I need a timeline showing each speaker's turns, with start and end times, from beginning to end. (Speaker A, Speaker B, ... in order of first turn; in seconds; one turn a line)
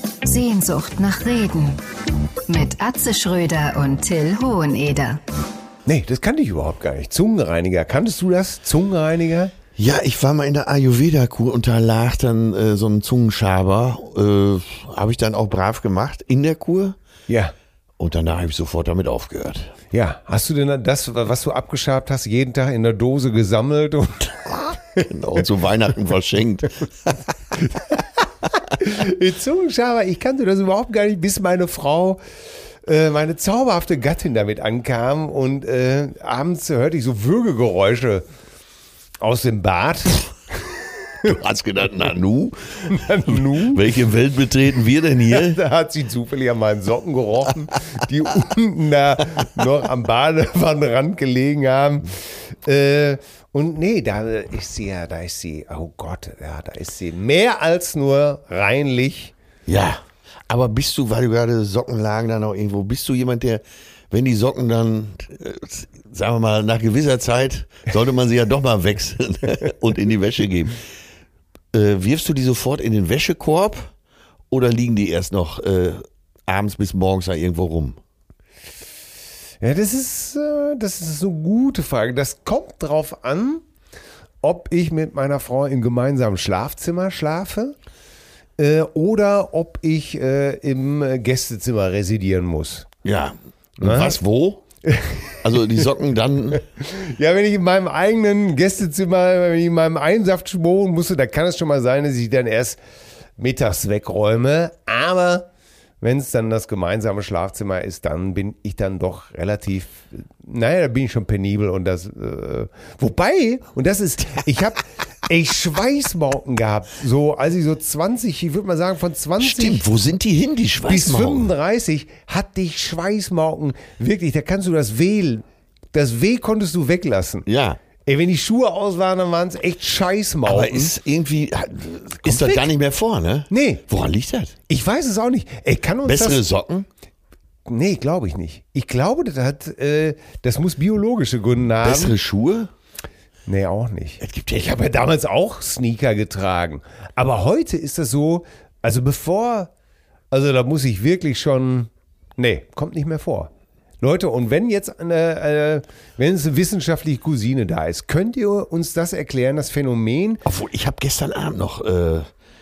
Speaker A: 0.2-1.8
Speaker A: 2.5-5.2
Speaker B: 5.9-9.5
Speaker C: 9.8-17.0
Speaker B: 17.3-17.5
Speaker C: 18.0-19.7
Speaker B: 19.9-25.1
Speaker C: 25.1-27.2
Speaker B: 27.7-28.0
Speaker B: 28.5-32.2
Speaker B: 32.9-38.3
Speaker B: 39.2-41.3
Speaker C: 41.2-45.6
Speaker B: 42.8-43.9
Speaker B: 45.3-59.3
Speaker C: 59.7-70.8
Speaker C: 71.7-73.9
Speaker C: 74.5-78.0
Speaker B: 79.6-83.6
Speaker B: 84.4-87.8
Speaker B: 88.6-92.9
Speaker C: 93.0-94.6
Speaker B: 93.8-94.2
Speaker B: 94.8-95.4
Speaker C: 95.4-96.6
Speaker B: 96.7-102.8
Speaker B: 103.4-105.5
Speaker B: 106.0-119.8
Speaker C: 119.4-121.5
Speaker B: 120.9-127.5
Speaker C: 127.5-127.8
Speaker B: 128.0-130.9
Speaker C: 130.5-134.6
Speaker B: 132.2-132.7
Speaker B: 133.5-133.8
Speaker B: 134.7-136.4
Speaker C: 136.0-136.9
Speaker B: 137.7-142.2
Speaker C: 141.8-142.7
Speaker B: 143.5-149.7
Speaker C: 144.2-144.8
Speaker B: 150.3-153.5
Speaker B: 154.0-160.4
Speaker C: 160.4-162.3